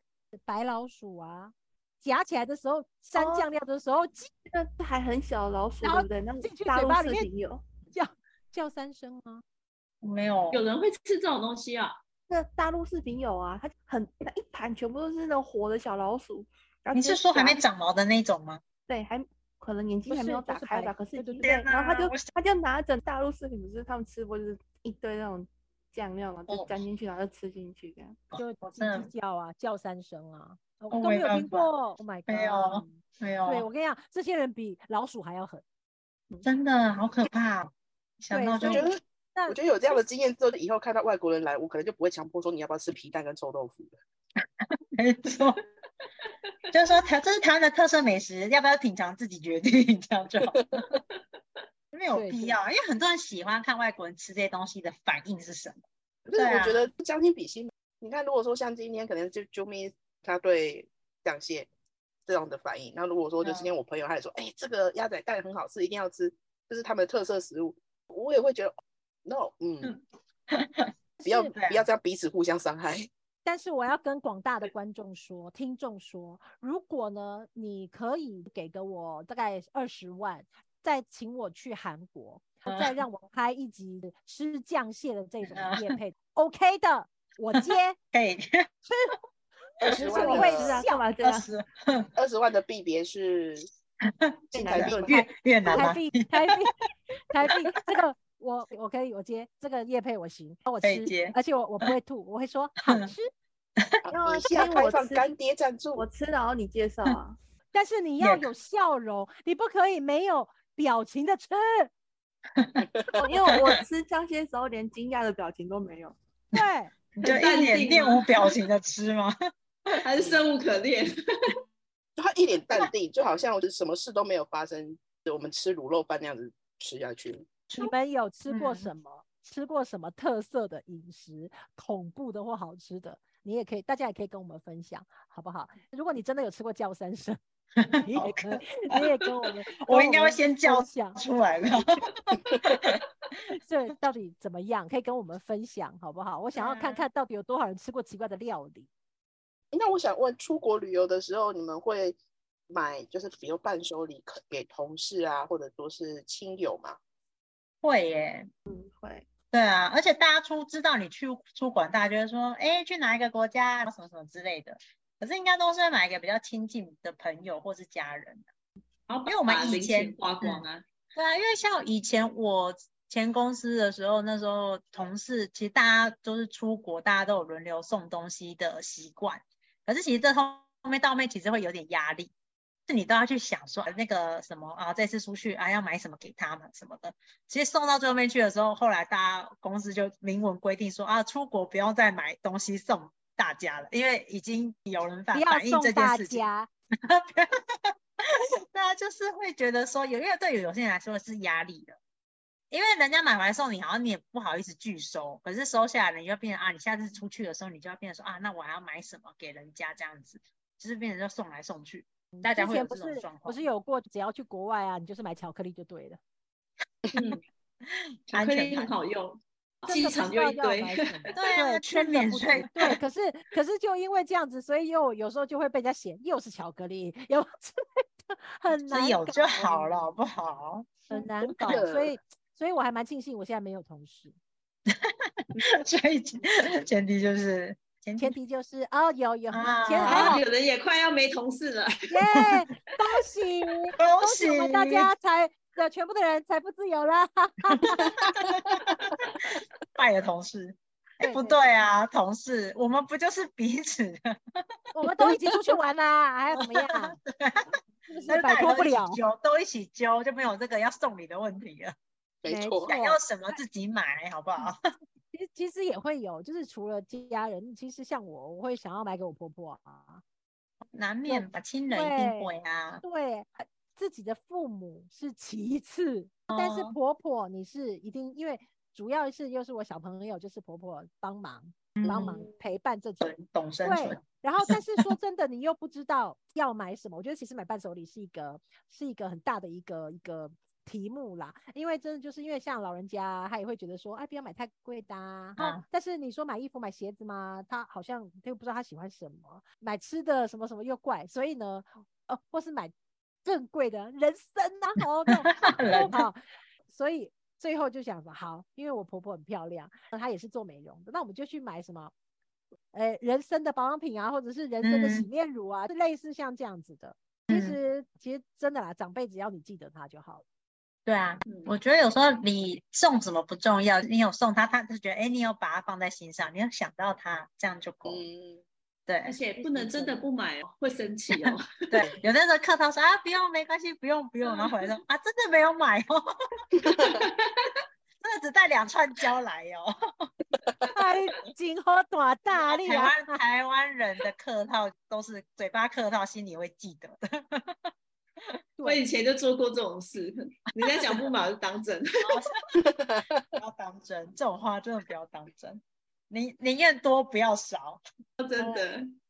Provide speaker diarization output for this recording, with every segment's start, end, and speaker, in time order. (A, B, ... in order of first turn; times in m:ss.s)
0:00.3-0:04.3 A
0:03.2-0:03.5 B
0:04.5-0:07.6 B
0:05.8-0:07.3 A
0:07.9-0:09.4 A
0:10.0-0:10.6 C
0:10.5-0:12.0 D
0:12.3-0:17.6 B
0:16.9-0:18.6 C
0:18.9-0:28.2 B
0:20.1-0:21.5 A
0:21.4-0:22.3 C
0:28.3-0:29.1 C
0:28.3-0:35.6 A
0:30.9-0:31.7 C
0:32.3-0:33.6 C
0:36.4-0:38.9 C
0:38.3-0:39.6 A
0:38.6-0:43.9 E
0:44.9-0:45.6 C
0:46.7-0:51.0 C
0:50.5-0:50.9 E
0:51.9-0:55.8 C
0:52.1-0:52.6 A
0:56.2-1:01.7 E
0:56.3-0:56.9 C
1:02.2-1:10.0 E
1:03.4-1:03.7 C
1:10.5-1:10.9 C
1:11.2-1:11.5 A
1:11.2-1:13.1 E
1:11.5-1:11.9 C
1:13.4-1:28.0 A
1:22.7-1:23.0 C
1:25.5-1:25.9 C
1:28.1-1:28.7 C
1:28.9-1:29.1 A
1:29.8-1:30.8 E
1:29.8-1:31.0 A
1:29.9-1:31.5 B
1:31.2-1:32.1 C
1:32.2-1:33.7 E
1:34.0-1:36.5 C
1:34.5-1:35.2 E
1:34.5-1:35.2 B
1:35.7-1:36.7 A
1:37.3-1:43.3 A
1:40.8-1:41.3 C
1:44.1-1:45.3 B
1:44.2-1:46.0 E
1:46.0-1:47.4 B
1:47.7-1:51.9 A
1:48.2-1:48.5 C
1:52.6-1:52.8 C
1:52.8-1:53.2 E
1:53.2-1:56.2 B
1:53.5-1:53.8 C
1:56.5-1:56.9 A
1:57.2-1:59.3 C
1:57.2-1:58.5 D
1:59.9-2:01.6 D
2:02.2-2:07.5 E
2:07.8-2:17.4 A
2:08.5-2:08.9 C
2:17.8-2:23.0 C
2:18.0-2:21.2 A
2:23.5-2:28.9 A
2:26.6-2:27.0 C
2:29.7-2:32.2 E
2:32.7-2:37.0 E
2:37.8-2:38.5 C
2:38.7-2:39.2 B
2:39.5-2:48.4 C
2:49.1-2:50.8 D
2:49.2-2:50.6 C
2:51.1-3:02.3 C
3:02.9-3:16.5 C
3:15.3-3:16.7 A
3:17.0-3:22.0 C
3:22.7-3:33.6 C
3:32.4-3:36.2 A
3:37.1-3:37.4 D
3:37.9-3:38.9 C
3:38.3-3:41.3 D
3:39.8-3:49.9 A
3:41.3-3:43.0 C
3:48.8-3:51.1 C
3:51.1-3:54.3 A
3:51.6-3:52.2 E
3:54.9-3:58.3 C
3:58.2-4:00.4 A
3:59.5-4:00.4 C
4:00.0-4:02.0 D
4:02.1-4:08.2 A
4:04.0-4:05.1 C
4:07.8-4:14.6 C
4:11.2-4:11.8 A
4:14.9-4:17.2 A
4:15.2-4:15.7 C
4:16.6-4:21.9 C
4:18.1-4:19.2 A
4:22.4-4:22.9 E
4:22.5-4:23.2 A
4:22.9-4:24.8 C
4:25.3-4:30.2 A
4:30.8-4:33.0 C
4:31.2-4:43.3 A
4:36.5-4:36.9 C
4:42.0-4:42.4 C
4:42.1-4:42.3 E
4:43.2-4:45.0 C
4:43.8-5:02.9 A
4:55.6-4:55.8 C
5:03.4-5:12.1 A
5:05.4-5:06.3 C
5:12.9-5:20.4 A
5:14.8-5:15.3 C
5:17.5-5:17.8 C
5:21.0-5:28.2 C
5:21.5-5:21.8 D
5:28.0-5:28.6 E
5:29.1-5:29.4 C
5:29.2-5:32.0 D
5:31.9-5:36.3 C
5:36.8-5:37.1 E
5:37.0-5:37.7 D
5:38.2-5:40.3 C
5:40.9-5:43.3 A
5:42.5-5:47.9 C
5:48.8-5:52.1 D
5:52.2-5:52.8 C
5:52.8-5:53.2 E
5:53.5-5:58.0 C
5:58.4-5:59.1 D
5:58.6-5:58.8 A